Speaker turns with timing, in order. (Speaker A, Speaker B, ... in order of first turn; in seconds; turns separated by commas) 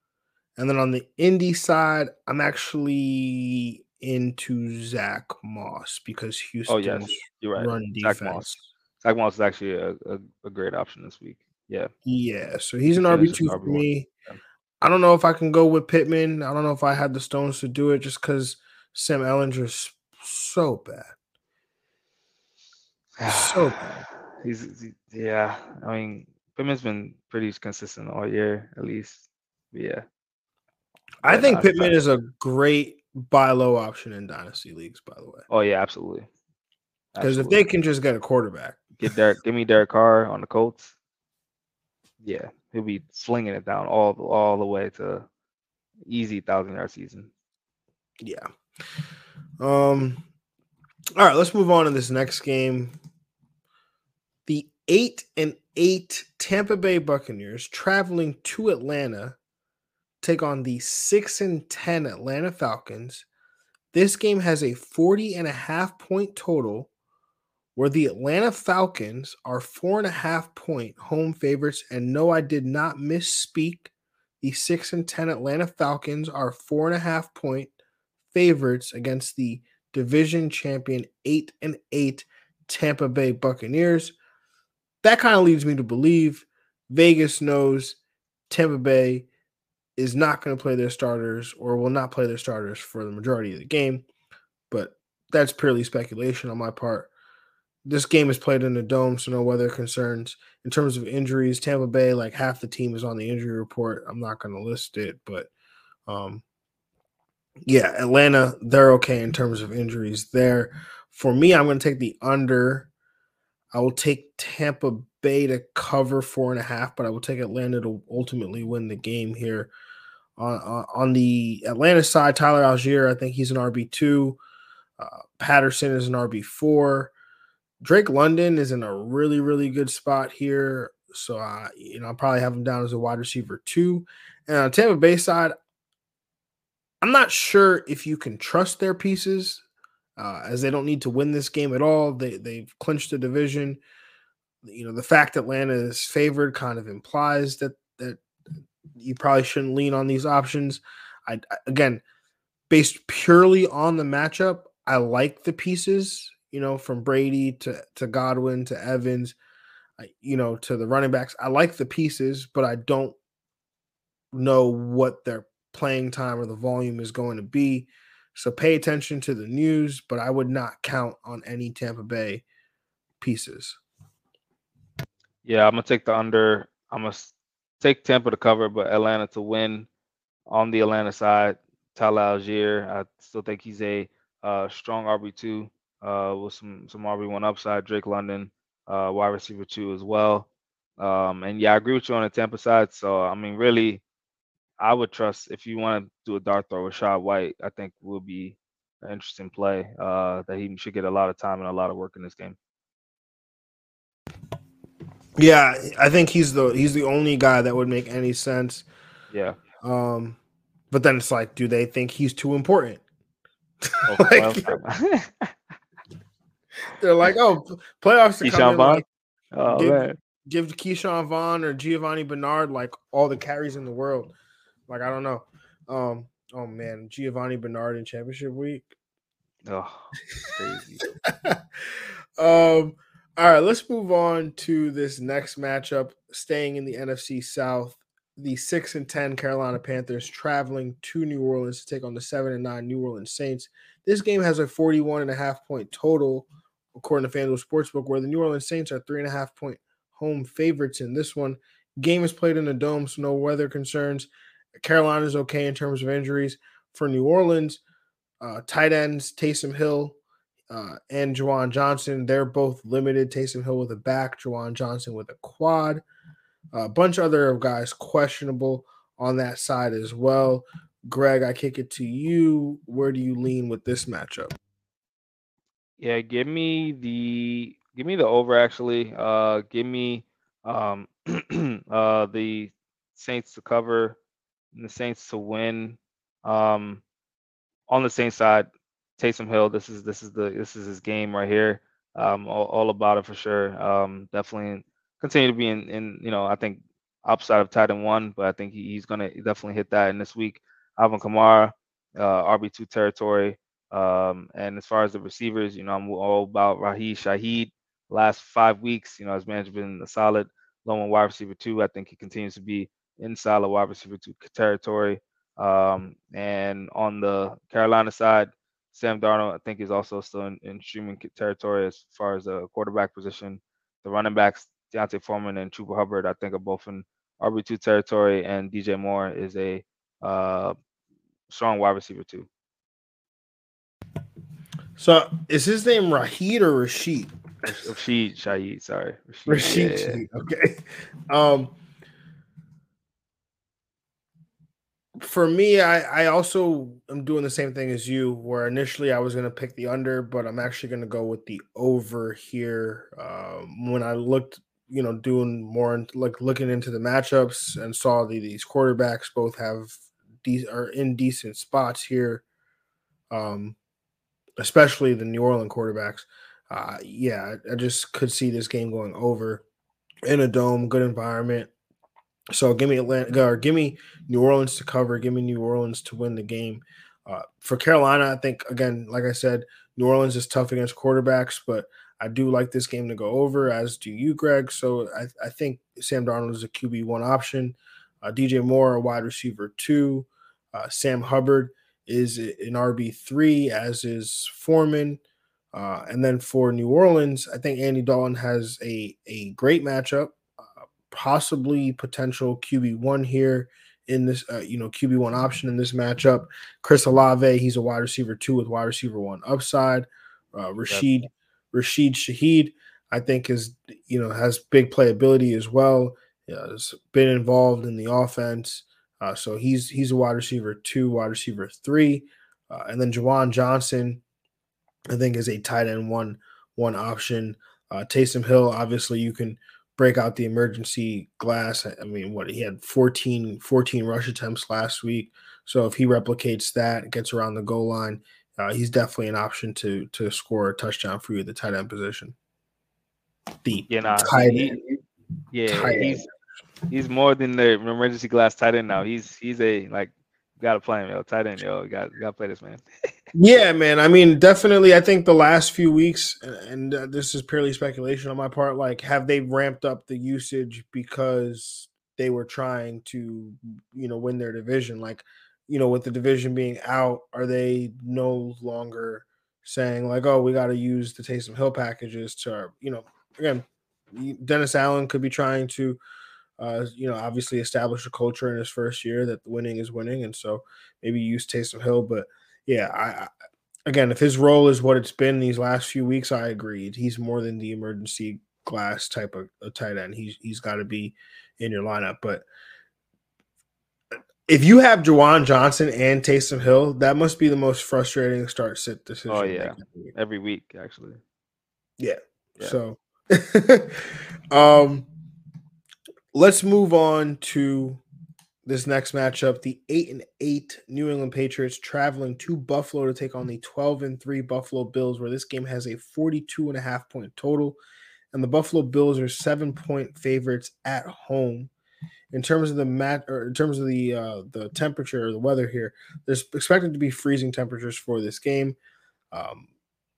Speaker A: 0.6-8.6, Speaker B: 6.7-11.9, Speaker A: 12.1-14.1, Speaker B: 12.9-14.4, Speaker A: 14.8-21.1, Speaker B: 23.2-30.0, Speaker A: 23.2-23.9, Speaker A: 31.2-35.4, Speaker B: 31.2-31.9, Speaker B: 35.5-36.3, Speaker B: 37.1-37.6, Speaker A: 37.2-38.9, Speaker B: 39.0-40.9, Speaker B: 42.2-45.3, Speaker B: 46.0-47.3, Speaker A: 48.2-48.5, Speaker A: 49.6-50.2, Speaker A: 51.2-52.9, Speaker A: 54.5-59.4, Speaker A: 60.2-63.2, Speaker A: 63.9-66.9, Speaker A: 67.8-77.7, Speaker A: 78.3-84.1, Speaker A: 85.0-89.3, Speaker A: 90.0-94.0, Speaker A: 94.7-97.1, Speaker A: 97.8-105.5, Speaker A: 106.1-106.4, Speaker A: 107.7-112.9, Speaker A: 113.7-119.7, Speaker A: 120.4-124.4, Speaker A: 125.0-127.1, Speaker A: 127.8-135.5, Speaker A: 137.0-139.6, Speaker A: 140.2-143.8, Speaker A: 144.6-148.2, Speaker A: 149.0-152.0, Speaker A: 152.7-159.3, Speaker A: 160.0-163.2, Speaker A: 164.3-172.4, Speaker A: 173.2-173.8, Speaker B: 175.4-179.9, Speaker B: 180.5-190.5, Speaker B: 191.0-194.0, Speaker B: 194.8-202.6, Speaker A: 205.4-208.8, Speaker B: 209.3-209.6, Speaker A: 209.8-210.4, Speaker A: 210.9-213.0, Speaker A: 213.9-214.8, Speaker B: 214.1-215.5, Speaker A: 216.9-219.0, Speaker B: 218.4-220.2, Speaker A: 219.7-224.3, Speaker A: 224.9-228.9, Speaker B: 229.7-231.0, Speaker A: 231.3-254.3, Speaker A: 254.8-257.8, Speaker A: 258.4-260.2, Speaker A: 260.7-266.0, Speaker A: 266.7-274.5, Speaker B: 276.0-284.2, Speaker B: 284.7-287.0, Speaker B: 287.9-330.8, Speaker B: 331.5-332.5, Speaker A: 335.0-337.9, Speaker B: 337.8-340.2, Speaker A: 339.5-341.7, Speaker A: 345.2-362.4, Speaker A: 363.3-363.8, Speaker A: 364.6-369.6, Speaker A: 370.3-371.7, Speaker A: 372.5-395.2, Speaker A: 395.7-400.4, Speaker A: 401.1-424.2, Speaker A: 425.1-442.4, Speaker A: 443.6-445.0, Speaker B: 443.9-444.8, Speaker B: 445.5-446.2, Speaker A: 445.7-446.2, Speaker B: 446.9-452.8, Speaker A: 453.3-476.0, Speaker A: 476.6-483.3, Speaker A: 483.9-492.4, Speaker A: 494.5-500.1, Speaker B: 499.3-501.2, Speaker A: 502.0-505.1, Speaker A: 506.3-508.0, Speaker A: 508.6-517.8, Speaker A: 518.3-521.7, Speaker A: 522.3-528.8, Speaker A: 529.3-529.7